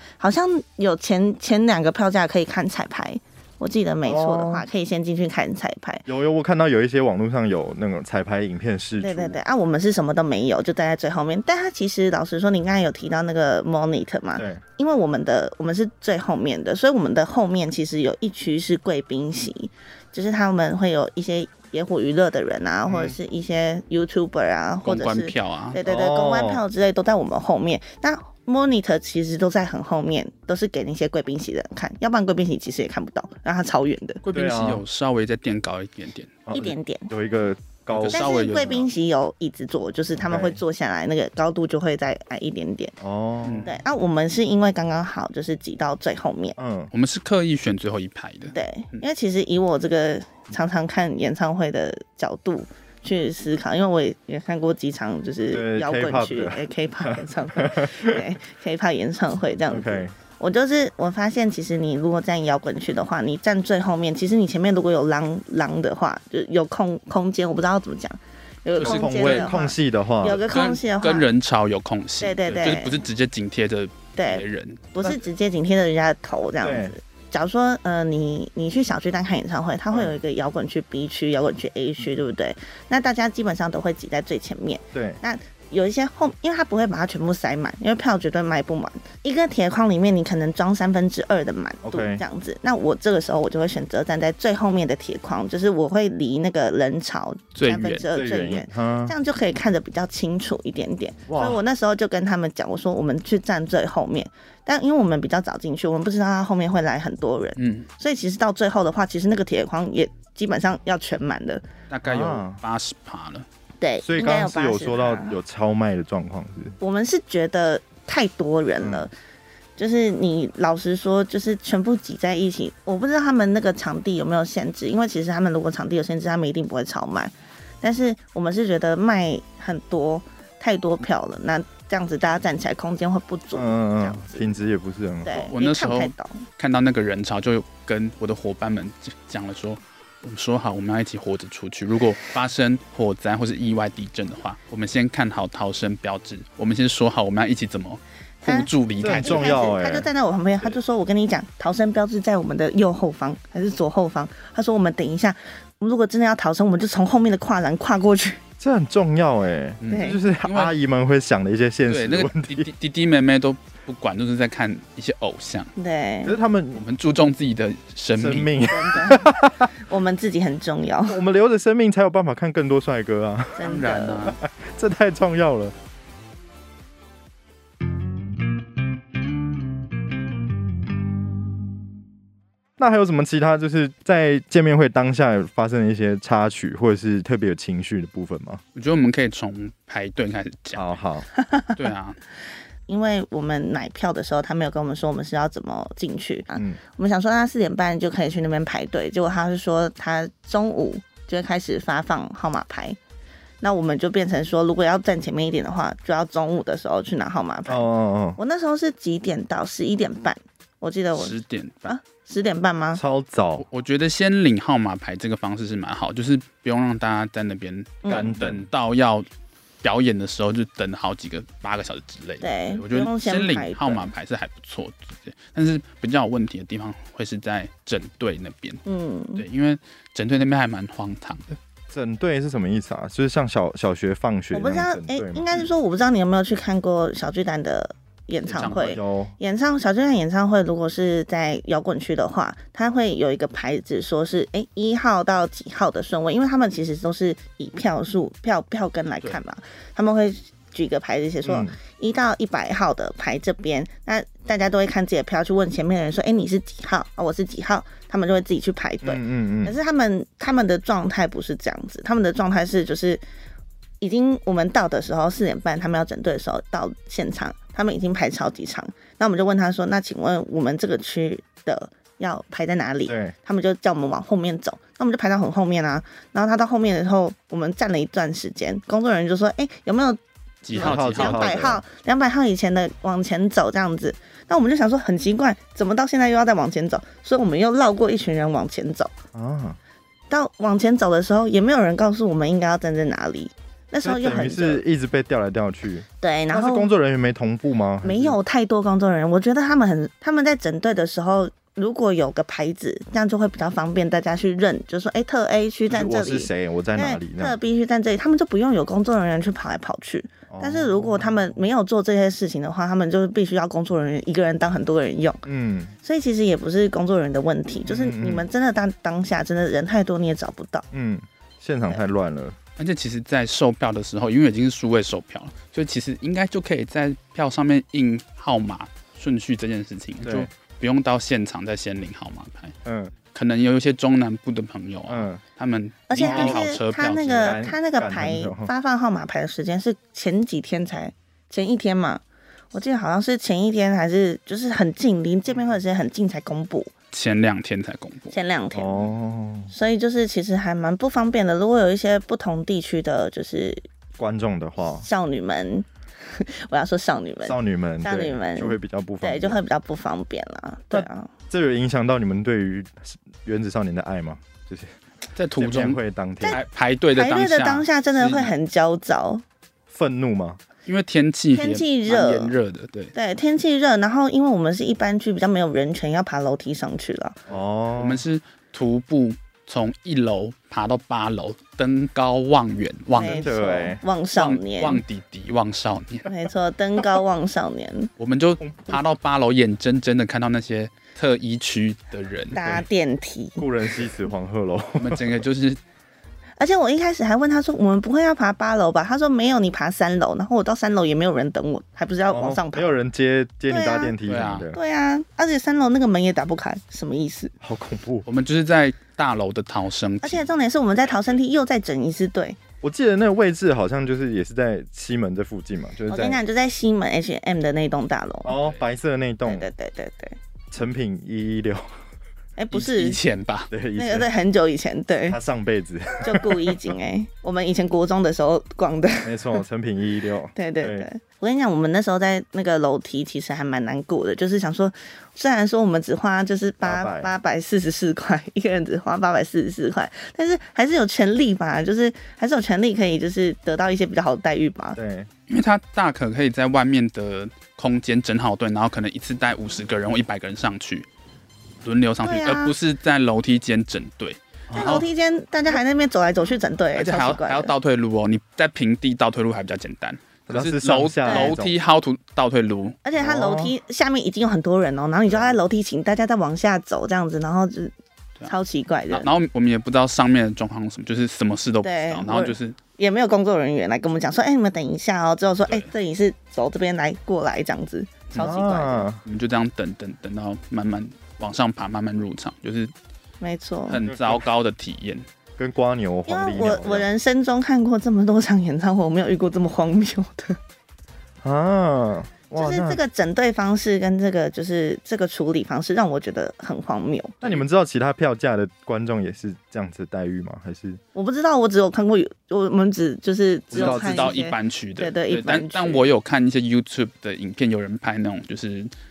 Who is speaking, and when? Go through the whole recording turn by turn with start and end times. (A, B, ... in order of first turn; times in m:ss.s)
0:00.2-0:06.0 A
0:04.0-0:04.6 B
0:06.1-0:09.4 B
0:09.0-0:34.2 A
0:14.4-0:14.6 B
0:22.9-0:23.2 B
0:24.8-0:25.8 C
0:25.8-0:26.6 B
0:34.2-0:36.4 C
0:34.3-0:34.8 B
0:36.5-0:38.3 B
0:36.5-0:37.1 A
0:37.9-0:38.9 C
0:38.1-0:43.0 A
0:40.2-0:40.6 B
0:43.0-0:43.7 B
0:43.4-0:43.7 C
0:43.6-0:46.6 A
0:46.6-0:46.9 B
0:46.9-0:49.0 C
0:48.5-1:11.3 A
0:55.5-0:58.2 B
0:59.7-1:00.1 B
1:08.8-1:09.5 C
1:08.8-1:10.4 B
1:10.3-1:14.8 C
1:12.2-1:13.0 A
1:14.2-1:51.6 A
1:16.6-1:16.9 B
1:24.9-1:25.2 B
1:31.8-1:32.2 B
1:37.6-1:38.0 C
1:38.1-1:39.1 B
1:41.3-1:41.6 B
1:47.6-1:47.9 C
1:51.9-1:53.4 C
1:52.0-1:52.6 B
1:53.8-1:55.4 A
1:54.0-1:56.7 B
1:56.8-1:59.1 A
1:58.8-1:59.1 B
1:59.8-2:14.5 A
2:13.5-2:15.5 B
2:15.2-2:16.4 A
2:15.5-2:29.5 C
2:28.4-2:38.4 A
2:29.0-2:30.1 B
2:38.6-2:42.7 B
2:39.8-2:40.7 C
2:39.9-2:40.2 A
2:41.9-2:45.7 C
2:45.8-2:46.3 A
2:46.2-2:46.8 B
2:46.7-2:48.5 C
2:48.2-2:49.7 B
2:48.6-2:51.2 A
2:51.1-2:53.7 B
2:53.6-2:54.3 A
2:53.6-2:54.4 C
2:54.3-2:55.7 B
3:02.8-3:08.6 B
3:08.7-3:10.9 C
3:10.7-3:11.2 B
3:11.4-3:11.7 A
3:11.7-3:12.2 C
3:12.9-3:23.0 A
3:23.6-3:27.8 A
3:27.7-3:28.4 B
3:28.4-3:33.0 A
3:31.1-3:31.9 C
3:32.9-3:33.6 B
3:33.6-3:39.3 C
3:38.0-3:38.3 A
3:38.1-3:38.6 B
3:39.8-3:48.8 C
3:42.4-3:44.1 A
3:48.8-3:49.4 A
3:49.4-3:51.6 C
3:51.9-3:55.6 B
3:54.5-4:23.2 A
3:58.4-3:59.0 C
3:58.9-3:59.3 B
4:11.4-4:11.7 B
4:19.0-4:19.8 B
4:24.0-4:40.2 A
4:33.0-4:33.3 B
4:40.6-4:41.5 C
4:40.7-4:49.1 A
4:40.8-4:41.8 B
4:49.3-4:49.8 B
4:50.3-4:54.8 A
4:54.0-4:58.4 B
4:56.2-4:56.9 A
4:58.0-5:15.4 A
5:05.9-5:07.6 B
5:10.5-5:11.5 B
5:15.4-5:15.9 B
5:16.0-5:20.8 A
5:17.9-5:18.4 B
5:20.9-5:22.6 B
5:22.8-5:32.7 C
5:30.2-5:30.5 B
5:32.8-5:33.1 B
5:33.3-5:37.6 C
5:35.1-5:35.4 B
5:36.1-5:42.2 A
5:36.2-5:36.7 B
5:37.4-5:38.7 B
5:42.7-5:46.9 A
5:47.1-5:48.3 C
5:48.3-5:49.1 A
5:48.7-5:49.7 B
5:49.7-5:53.8 A
5:54.2-5:55.0 B
5:54.9-5:55.9 A
5:56.4-6:01.3 A
5:57.4-5:59.6 B
6:00.9-6:04.9 B
6:05.4-6:08.5 C
6:05.6-6:06.6 B
6:07.1-6:09.4 A
6:09.9-6:10.6 B
6:10.8-6:13.1 C
6:11.5-6:12.5 A
6:13.1-6:17.4 A
6:17.5-6:18.2 B
6:18.0-6:23.5 C
6:23.1-6:25.0 A
6:23.3-6:24.0 B
6:24.3-6:26.3 C
6:26.3-6:28.1 A
6:28.2-6:32.6 C
6:28.6-6:29.0 B
6:32.5-6:33.6 A
6:33.6-6:35.4 B
6:35.0-6:35.8 C
6:36.6-6:42.9 A
6:42.3-6:44.8 B
6:43.7-6:44.2 A
6:44.2-6:44.7 C
6:44.7-6:47.5 A
6:47.6-6:48.2 B
6:48.2-6:50.5 C
6:50.2-6:52.6 A
6:52.8-6:56.4 B
6:56.1-6:58.5 A
6:58.4-6:59.7 B
6:59.4-7:00.4 A
7:00.7-7:01.9 B
7:02.6-7:03.2 A
7:02.7-7:03.7 C
7:03.7-7:04.3 B
7:04.0-7:05.4 A
7:05.3-7:06.8 B
7:06.2-7:09.4 A
7:09.2-7:11.0 B
7:10.5-7:25.0 A
7:16.8-7:17.3 B
7:25.0-7:25.3 B
7:25.5-7:31.1 C
7:31.8-7:35.0 C
7:32.2-7:32.7 A
7:34.7-7:35.0 B
7:34.7-7:37.7 A
7:37.0-7:43.0 C
7:40.5-7:41.7 B
7:41.2-7:41.5 A
7:43.0-7:47.9 A
7:43.2-7:43.7 B
7:48.5-7:49.3 A
7:49.1-7:52.8 C
7:51.8-7:59.1 A
7:58.4-7:59.2 B
7:59.2-8:02.9 C
8:03.4-8:04.0 A
8:03.9-8:05.2 C
8:04.0-8:04.4 B
8:05.6-8:07.0 B
8:06.3-8:10.6 A
8:11.4-8:13.0 B
8:12.6-8:17.4 A
8:17.4-8:21.0 B
8:21.1-8:26.0 A
8:23.7-8:24.4 B
8:23.7-8:28.9 C